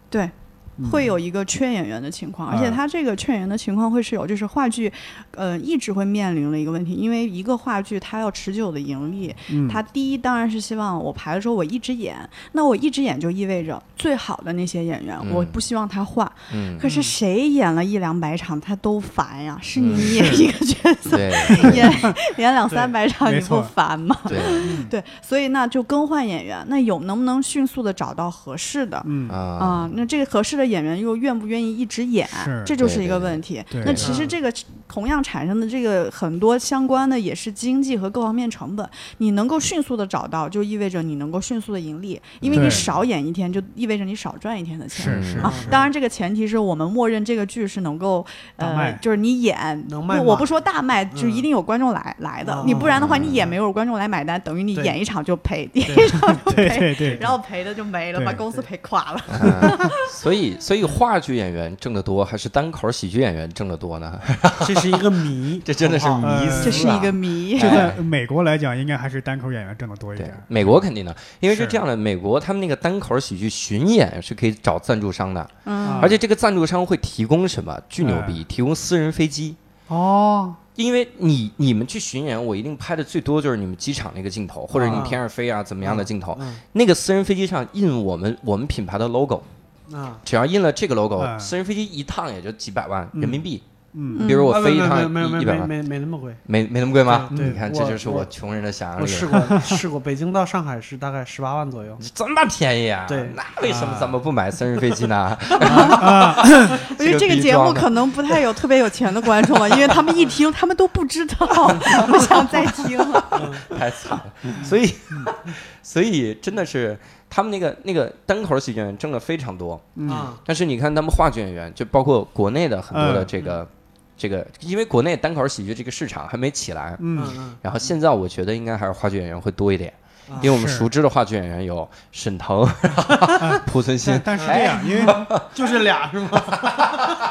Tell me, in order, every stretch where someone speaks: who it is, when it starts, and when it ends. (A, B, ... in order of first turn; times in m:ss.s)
0:00.1-1:00.1 A
0:00.8-0:01.1 B
0:02.5-0:02.8 B
0:09.5-0:09.8 B
0:15.2-0:15.6 C
0:16.5-0:16.8 C
0:16.8-0:17.1 D
0:19.8-0:20.4 C
0:20.0-0:20.4 B
0:21.1-0:22.0 C
0:21.5-0:22.2 B
0:22.7-0:22.9 D
0:23.2-0:23.7 B
0:24.2-0:24.8 C
0:24.6-0:24.9 D
0:29.0-0:29.4 B
0:29.3-0:29.9 C
0:32.3-0:32.8 B
0:32.8-0:33.8 C
0:33.7-0:34.1 B
0:33.9-0:34.4 D
0:42.4-0:43.0 C
0:42.5-0:42.8 B
0:44.9-0:45.8 B
0:45.0-0:45.6 C
0:45.4-0:45.9 D
0:48.6-0:49.0 B
0:49.9-0:50.5 D
0:51.1-0:51.5 D
0:52.4-0:53.4 D
0:52.7-0:53.5 C
0:55.8-0:57.2 D
0:56.3-0:57.4 B
0:58.1-0:58.4 B
0:59.3-1:08.0 C
1:04.6-1:07.0 D
1:06.2-1:07.0 B
1:06.6-1:07.9 A
1:07.6-1:10.8 B
1:10.2-1:19.6 C
1:11.5-1:11.8 B
1:15.6-1:16.2 A
1:15.8-1:16.2 B
1:18.0-1:18.4 B
1:19.9-1:20.6 B
1:20.8-1:29.5 C
1:24.7-1:25.2 D
1:24.7-1:25.1 B
1:25.8-1:26.6 D
1:29.9-1:30.2 D
1:30.2-1:33.6 C
1:31.2-1:31.5 B
1:33.1-1:34.3 B
1:34.1-1:34.5 A
1:34.2-1:35.7 C
1:34.4-1:36.4 D
1:36.4-1:39.5 C
1:37.0-1:38.3 D
1:37.3-1:37.6 B
1:39.0-1:42.0 D
1:39.3-1:39.8 B
1:42.0-1:48.4 C
1:43.1-1:43.4 D
1:43.6-1:44.2 B
1:45.6-1:46.0 D
1:45.6-1:53.6 A
1:45.7-1:46.7 B
1:53.3-1:53.7 D
1:53.4-2:15.5 C
2:00.0-2:00.3 B
2:00.1-2:00.4 D
2:02.9-2:03.3 B
2:07.0-2:07.4 B
2:07.1-2:07.9 D
2:10.4-2:10.9 B
2:13.4-2:15.3 B
2:14.4-2:17.1 D